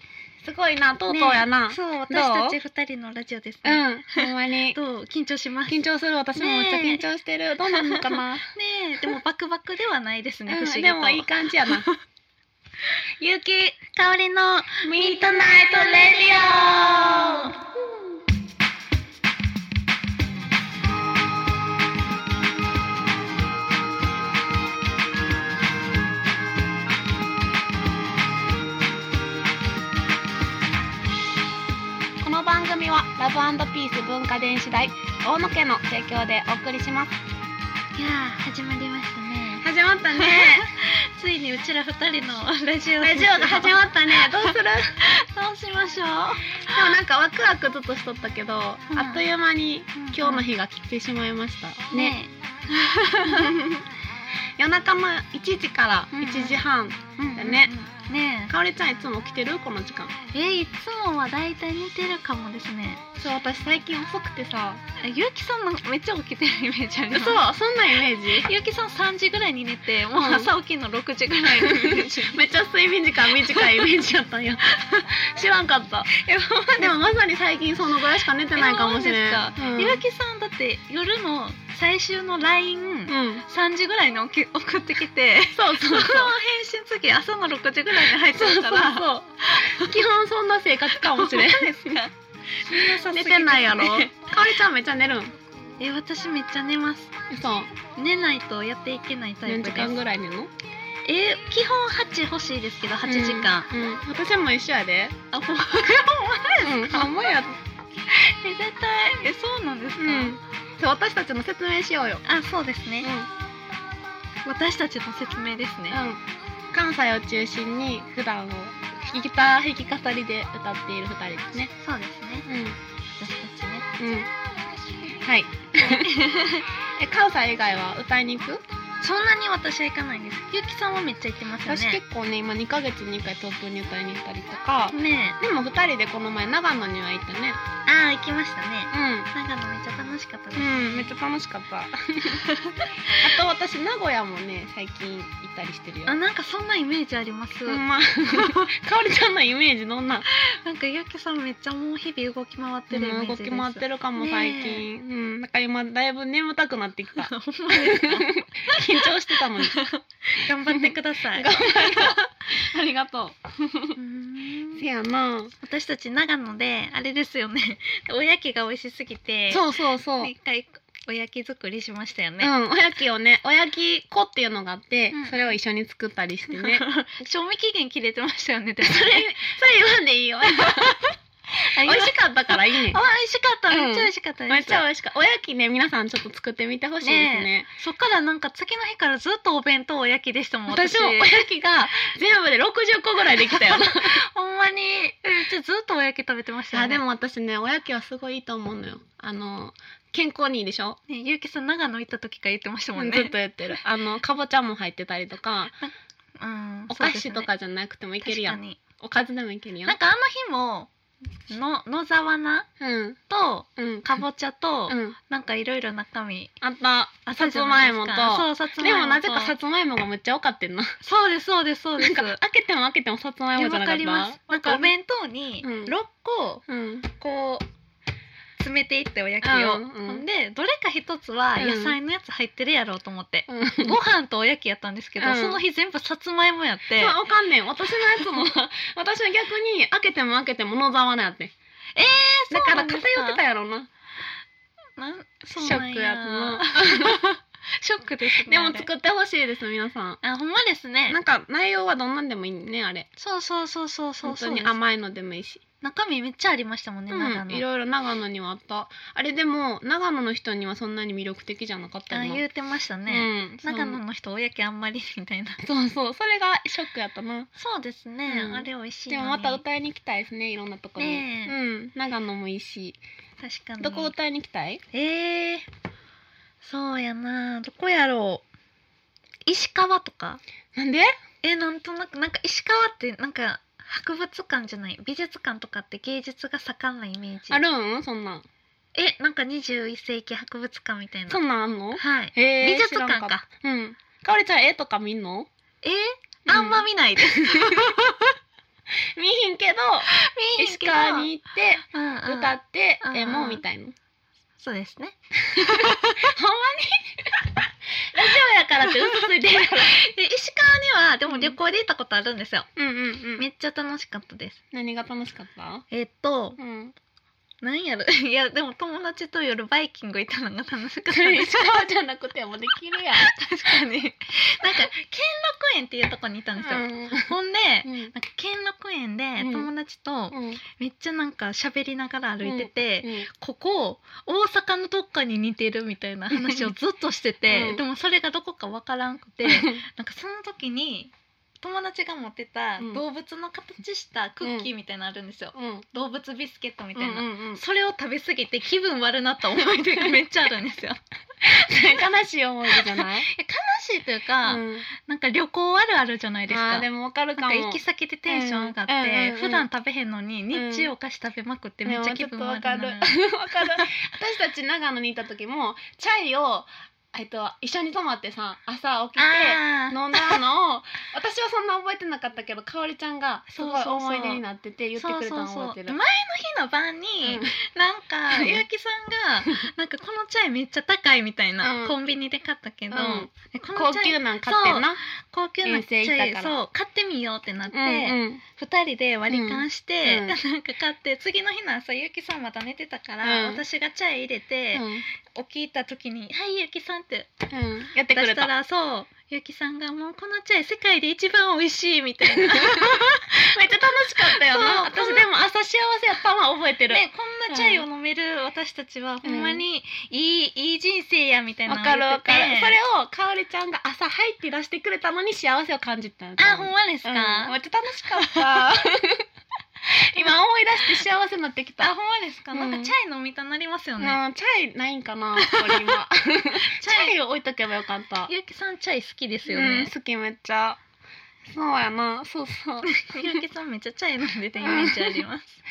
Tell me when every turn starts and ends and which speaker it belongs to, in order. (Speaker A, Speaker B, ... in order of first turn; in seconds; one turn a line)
Speaker A: 0.4-2.6
Speaker B: 1.1-5.8
Speaker A: 3.6-4.8
Speaker A: 5.7-8.5
Speaker B: 6.3-7.0
Speaker B: 7.7-11.9
Speaker A: 10.5-11.9
Speaker B: 12.9-17.6
Speaker A: 14.8-17.5
Speaker A: 32.2-37.1
Speaker B: 38.0-47.0
Speaker A: 39.6-40.7
Speaker A: 43.0-45.0
Speaker A: 46.7-52.2
Speaker B: 48.9-49.2
Speaker B: 50.0-50.5
Speaker B: 51.9-53.5
Speaker A: 53.2-53.9
Speaker A: 54.6-57.7
Speaker B: 56.1-56.6
Speaker B: 57.2-58.5
Speaker A: 58.5-60.1
Speaker B: 60.3-63.0
Speaker A: 63.2-64.8
Speaker B: 65.0-67.4
Speaker A: 67.1-68.5
Speaker B: 68.4-72.4
Speaker A: 70.1-70.5
Speaker A: 71.5-76.1
Speaker B: 73.2-73.9
Speaker B: 74.7-75.1
Speaker B: 76.1-77.0
Speaker A: 76.8-80.0
Speaker B: 78.5-89.9
Speaker A: 83.1-83.4
Speaker A: 85.5-86.3
Speaker A: 88.3-92.0
Speaker B: 90.9-94.2
Speaker A: 92.7-95.3
Speaker B: 95.8-97.1
Speaker A: 97.3-97.7
Speaker B: 97.9-100.0
Speaker A: 99.5-100.5
Speaker B: 101.0-103.7
Speaker A: 103.0-105.2
Speaker B: 105.3-107.1
Speaker A: 106.6-107.6
Speaker B: 108.1-110.4
Speaker A: 110.0-112.2
Speaker B: 112.2-113.1
Speaker A: 113.0-113.3
Speaker B: 114.4-116.0
Speaker A: 115.9-116.2
Speaker A: 116.7-121.7
Speaker B: 121.7-122.5
Speaker A: 122.5-122.8
Speaker B: 123.2-123.9
Speaker A: 124.0-124.3
Speaker A: 125.2-126.2
Speaker B: 125.8-126.7
Speaker A: 127.0-128.6
Speaker B: 129.0-132.0
Speaker A: 131.6-137.6
Speaker B: 134.9-135.4
Speaker B: 137.8-141.1
Speaker A: 138.9-139.3
Speaker A: 140.5-142.4
Speaker B: 142.3-143.3
Speaker A: 143.0-146.2
Speaker B: 146.1-148.6
Speaker A: 147.7-150.3
Speaker B: 150.3-154.8
Speaker A: 152.9-159.8
Speaker B: 157.2-162.2
Speaker A: 160.7-164.0
Speaker B: 164.0-164.8
Speaker A: 164.7-165.5
Speaker B: 165.6-172.5
Speaker A: 169.5-170.3
Speaker A: 172.4-176.8
Speaker B: 175.1-175.5
Speaker B: 176.5-179.3
Speaker A: 178.8-181.0
Speaker B: 180.4-181.0
Speaker B: 181.6-184.8
Speaker A: 181.6-183.0
Speaker A: 183.7-187.7
Speaker B: 187.0-192.1
Speaker A: 190.7-194.2
Speaker B: 193.4-197.0
Speaker A: 196.7-201.0
Speaker B: 201.1-203.3
Speaker A: 202.9-205.7
Speaker B: 205.8-207.5
Speaker A: 206.9-209.9
Speaker B: 208.2-208.8
Speaker B: 209.8-210.9
Speaker B: 211.5-212.7
Speaker A: 212.8-213.2
Speaker B: 213.3-216.5
Speaker A: 213.8-214.2
Speaker A: 214.9-215.2
Speaker A: 216.6-221.0
Speaker B: 217.3-219.5
Speaker B: 221.0-222.4
Speaker A: 222.0-224.9
Speaker B: 223.5-226.6
Speaker A: 225.6-225.9
Speaker A: 226.7-227.1
Speaker B: 227.2-227.7
Speaker B: 228.6-237.2
Speaker A: 229.4-230.2
Speaker A: 231.6-232.0
Speaker A: 233.5-233.9
Speaker A: 235.2-235.6
Speaker A: 237.0-241.5
Speaker B: 241.9-243.4
Speaker A: 242.5-243.9
Speaker B: 244.9-248.9
Speaker A: 245.6-247.2
Speaker A: 248.4-250.2
Speaker B: 250.2-251.2
Speaker A: 251.1-253.1
Speaker B: 253.2-254.8
Speaker A: 254.2-255.6
Speaker B: 255.8-257.6
Speaker A: 257.1-262.4
Speaker B: 262.1-265.6
Speaker A: 263.1-264.0
Speaker A: 265.6-267.5
Speaker B: 267.6-269.6
Speaker A: 268.2-273.0
Speaker B: 271.0-271.5
Speaker B: 273.4-274.1
Speaker A: 273.8-274.8
Speaker B: 274.9-275.7
Speaker B: 276.6-278.4
Speaker B: 279.4-280.4
Speaker A: 280.7-281.1
Speaker B: 281.4-287.6
Speaker A: 287.5-288.4
Speaker B: 288.9-291.4
Speaker A: 291.3-295.5
Speaker B: 291.9-293.4
Speaker B: 295.8-298.4
Speaker A: 296.5-297.9
Speaker A: 299.1-303.9
Speaker B: 300.1-301.3
Speaker B: 301.9-303.6
Speaker B: 304.6-306.3
Speaker A: 305.5-307.4
Speaker A: 308.1-310.0
Speaker B: 308.8-312.7
Speaker A: 311.3-311.5
Speaker A: 312.8-313.4
Speaker B: 313.4-314.6
Speaker A: 314.7-315.9
Speaker B: 315.9-316.6
Speaker A: 316.6-316.9
Speaker B: 317.6-321.8
Speaker A: 321.1-323.3
Speaker B: 323.1-351.0
Speaker A: 326.6-327.3
Speaker A: 327.8-328.1
Speaker A: 329.4-329.7
Speaker A: 330.3-330.6
Speaker A: 332.4-333.3
Speaker A: 336.4-336.7
Speaker A: 337.5-337.8
Speaker A: 339.4-339.8
Speaker A: 344.4-344.7
Speaker A: 345.5-345.9
Speaker A: 346.9-347.6
Speaker A: 351.4-353.3
Speaker B: 352.7-356.9
Speaker A: 354.4-354.9
Speaker A: 356.5-359.6
Speaker B: 357.4-363.9
Speaker A: 360.5-360.9
Speaker A: 361.8-376.0
Speaker B: 369.1-370.4
Speaker B: 373.5-374.4
Speaker B: 375.0-397.3
Speaker A: 377.2-377.5
Speaker A: 378.3-378.6
Speaker A: 381.6-381.9
Speaker A: 382.9-385.0
Speaker A: 385.6-386.6
Speaker A: 387.7-388.4
Speaker A: 389.3-390.4
Speaker A: 393.2-393.6
Speaker A: 394.7-395.1
Speaker A: 397.5-398.5
Speaker B: 398.1-403.5
Speaker A: 402.4-407.8
Speaker B: 404.1-405.3
Speaker B: 406.9-412.8
Speaker A: 409.2-409.6
Speaker A: 411.7-419.2
Speaker B: 416.4-417.5
Speaker B: 418.2-418.5
Speaker A: 419.9-421.9
Speaker B: 421.8-424.2
Speaker A: 422.5-422.9
Speaker A: 424.0-428.3
Speaker B: 425.4-426.0
Speaker B: 426.7-427.2
Speaker B: 428.3-429.9
Speaker A: 429.5-430.8
Speaker A: 431.4-433.4
Speaker B: 432.8-435.6
Speaker A: 434.6-435.2